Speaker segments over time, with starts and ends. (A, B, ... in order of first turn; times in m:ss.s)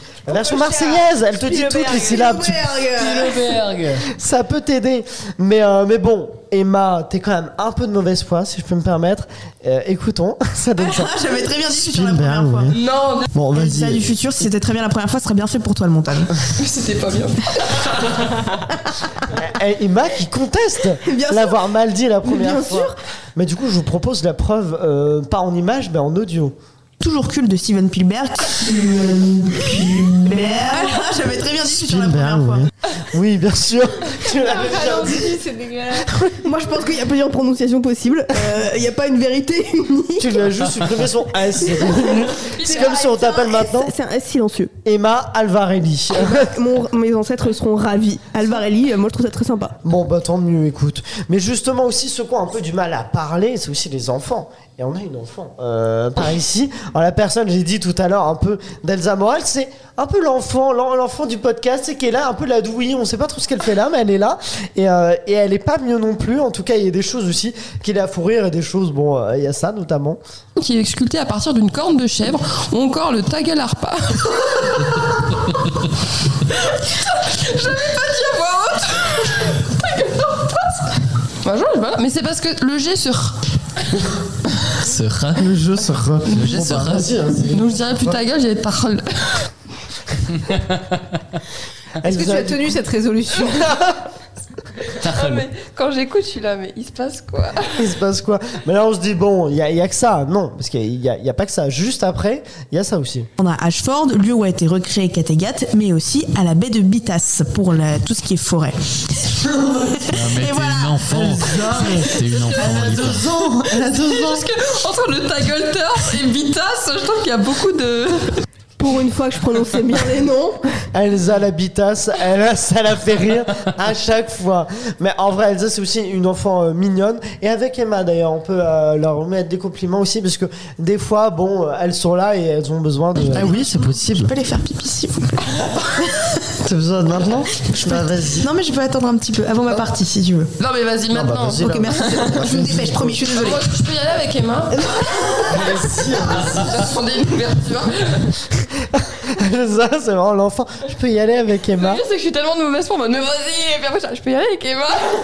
0:00.2-0:02.7 A
0:00.3-0:02.4 B
0:01.9-0:03.4 C
0:03.0-0:04.0 D
0:04.1-0:11.1 A
0:10.8-0:12.7 C
0:11.8-0:12.8 E
0:12.7-0:13.2 F
0:13.3-0:14.1 E
0:13.5-0:16.3 C
0:16.5-0:18.2 F
0:19.3-0:26.5 A
0:21.0-0:21.5 G
0:22.2-0:23.0 G
0:27.0-0:32.7 C
0:31.8-0:32.7 E
0:33.0-0:35.4 A
0:34.3-0:36.3 B
0:36.4-0:40.4 G
0:40.2-0:43.9 A
0:41.9-0:44.7 G
0:42.5-0:43.1 F
0:44.8-0:46.5 A
0:46.2-0:49.8 G
0:49.8-1:10.2 A
1:10.6-1:14.9 F
1:16.7-1:23.4 F
1:24.8-1:25.5 D
1:25.4-1:28.2 E
1:26.3-1:27.1 D
1:27.5-1:29.4 F
1:32.0-1:32.7 A
1:32.0-1:33.8 B
1:33.5-1:34.0 A
1:35.0-1:37.7 F
1:35.0-1:35.4 D
1:37.7-1:43.3 A
1:43.4-1:51.3 C
1:50.1-1:53.3 D
1:51.1-1:54.5 E
1:53.8-1:58.4 F
1:58.8-2:00.7 G
2:00.9-2:13.6 A
2:13.3-2:14.3 E
2:13.4-2:15.4 C
2:16.6-2:18.5 E
2:17.7-2:20.5 C
2:20.6-2:21.6 F
2:21.1-2:23.2 E
2:21.6-2:23.7 C
2:23.3-2:24.8 F
2:25.3-2:26.8 E
2:26.4-2:28.2 F
2:28.8-2:32.0 A
2:31.8-2:35.1 F